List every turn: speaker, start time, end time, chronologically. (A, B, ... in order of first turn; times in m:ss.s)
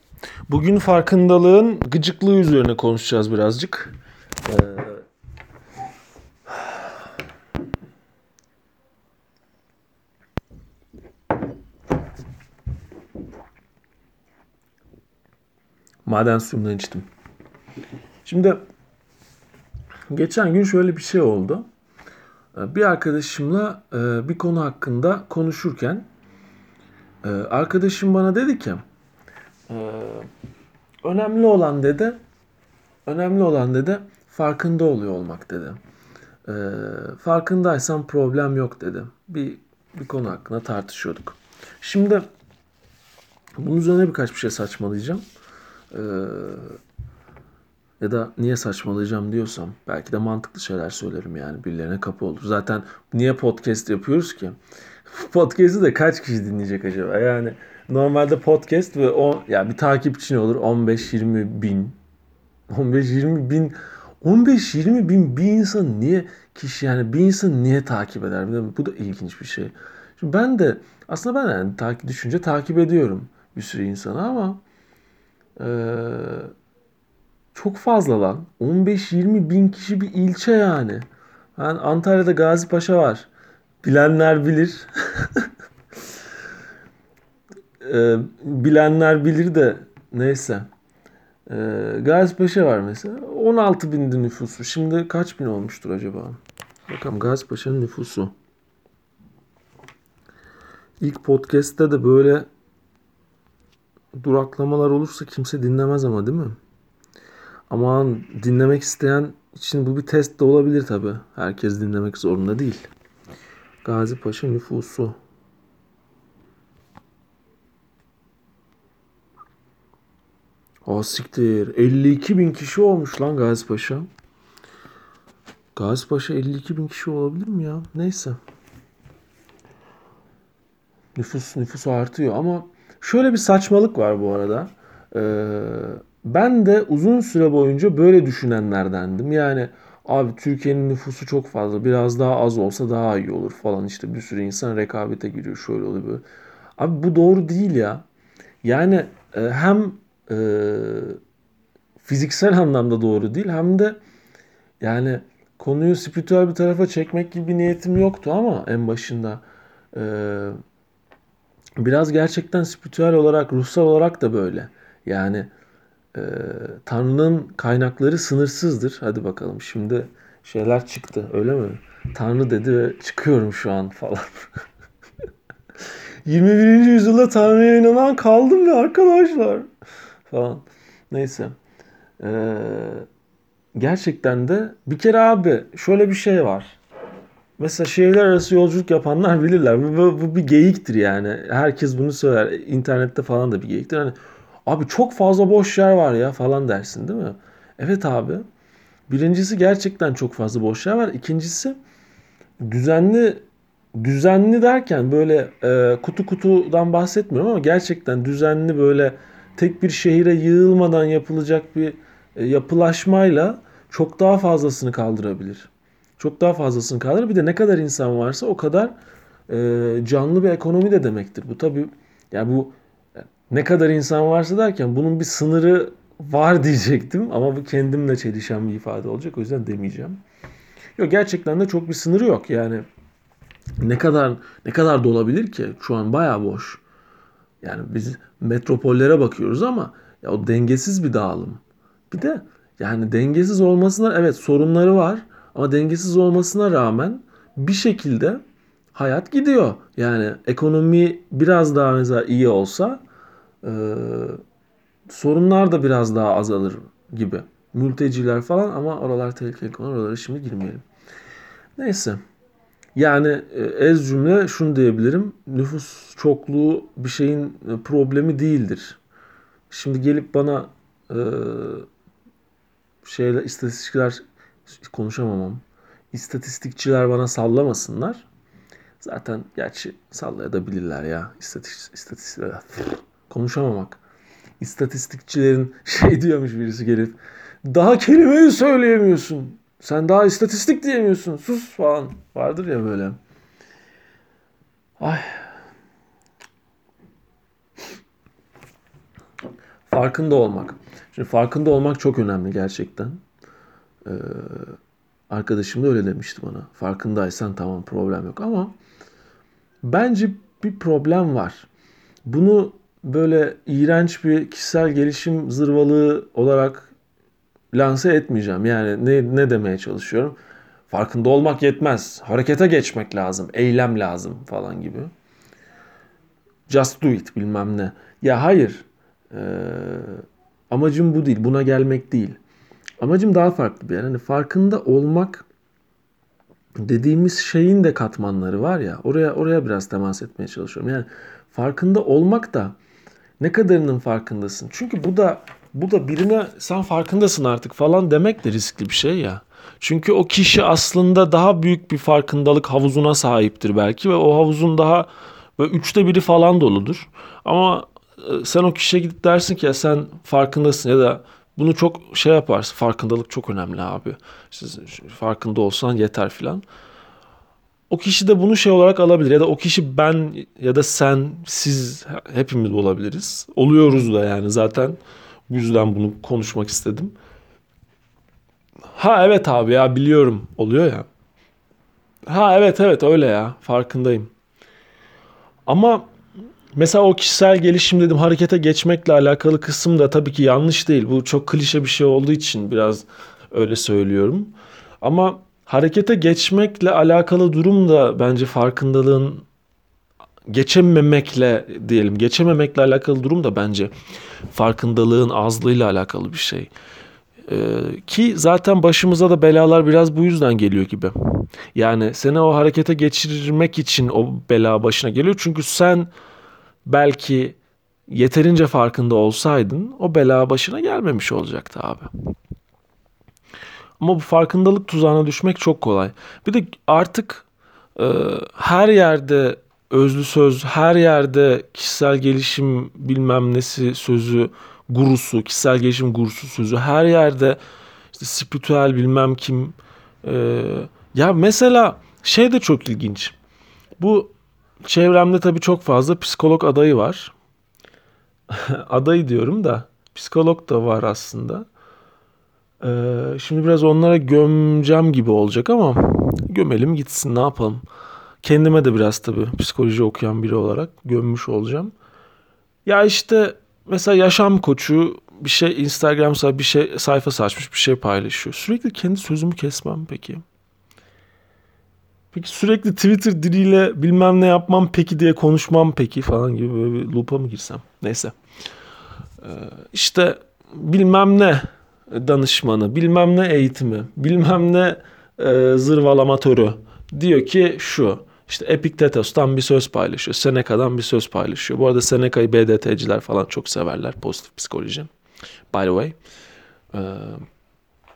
0:00.5-0:05.0 A
0:16.0-0:17.0 A
0:18.2-0:18.6 A
0:20.1-0:21.6 A
0:22.6-0:26.1 A
0:27.2-0:28.8 A
0:29.7-0:30.3 A
0:31.0-0:32.2 A
0:33.1-0:35.8 A
0:36.5-0:42.3 A
0:43.6-0:45.2 A
0:45.9-0:46.8 A
0:48.0-0:54.6 A
0:55.1-1:02.0 A
1:02.7-1:14.6 A
1:15.6-1:16.5 A
1:17.5-1:21.0 A
1:21.6-1:23.3 A
1:23.8-1:25.5 A
1:27.8-1:30.7 A
1:31.5-1:38.3 A
1:41.0-1:42.5 A
1:44.2-1:46.6 A
1:47.7-1:52.9 A
1:53.8-1:55.2 A
2:00.8-2:04.1 A
2:05.8-2:08.4 A
2:11.2-2:26.2 A
2:26.8-2:28.0 A
2:28.6-2:31.2 A
2:32.0-2:34.0 A
2:34.8-2:40.6 A
2:41.8-2:45.5 A
2:46.1-2:54.5 A
2:56.2-2:59.7 A
3:00.3-3:01.5 A
3:02.2-3:03.1 A
3:03.8-3:06.8 A
3:07.6-3:18.4 A
3:19.1-3:21.8 A
3:22.6-3:23.4 A
3:24.0-3:38.9 A
3:39.5-3:42.8 A
3:43.5-3:50.2 A
3:51.0-3:52.8 A
3:53.8-3:56.8 A
3:57.6-4:08.4 A
4:08.9-4:13.0 A
4:13.6-4:14.4 A
4:15.1-4:20.8 A
4:21.8-4:22.2 A
4:23.0-4:29.0 A
4:29.7-4:31.9 A
4:33.0-4:38.2 A
4:39.0-4:44.0 A
4:44.6-4:53.2 A
4:55.0-4:55.5 A
4:59.9-5:03.2 A
5:04.0-5:04.8 A
5:05.3-5:08.8 A
5:09.8-5:11.7 A
5:12.3-5:16.9 A
5:17.7-5:20.4 A
5:20.9-5:25.1 A
5:26.7-5:32.4 A
5:33.0-5:35.5 A
5:36.8-5:42.8 A
5:43.4-6:06.6 A
6:07.9-6:17.2 A
6:19.0-6:21.1 A
6:22.3-6:24.3 A
6:25.7-6:26.1 A
6:26.8-6:39.4 A
6:40.5-6:43.9 A
6:44.5-6:46.7 A
6:47.5-6:56.1 A
6:56.8-7:02.1 A
7:04.0-7:17.6 A
7:18.1-7:23.4 A
7:24.0-7:27.3 A
7:28.5-7:31.7 A
7:32.8-7:37.8 A
7:38.4-7:41.9 A
7:42.8-7:50.4 A
7:52.3-7:58.4 A
7:59.4-8:15.1 A
8:15.7-8:16.2 A
8:16.9-8:17.4 A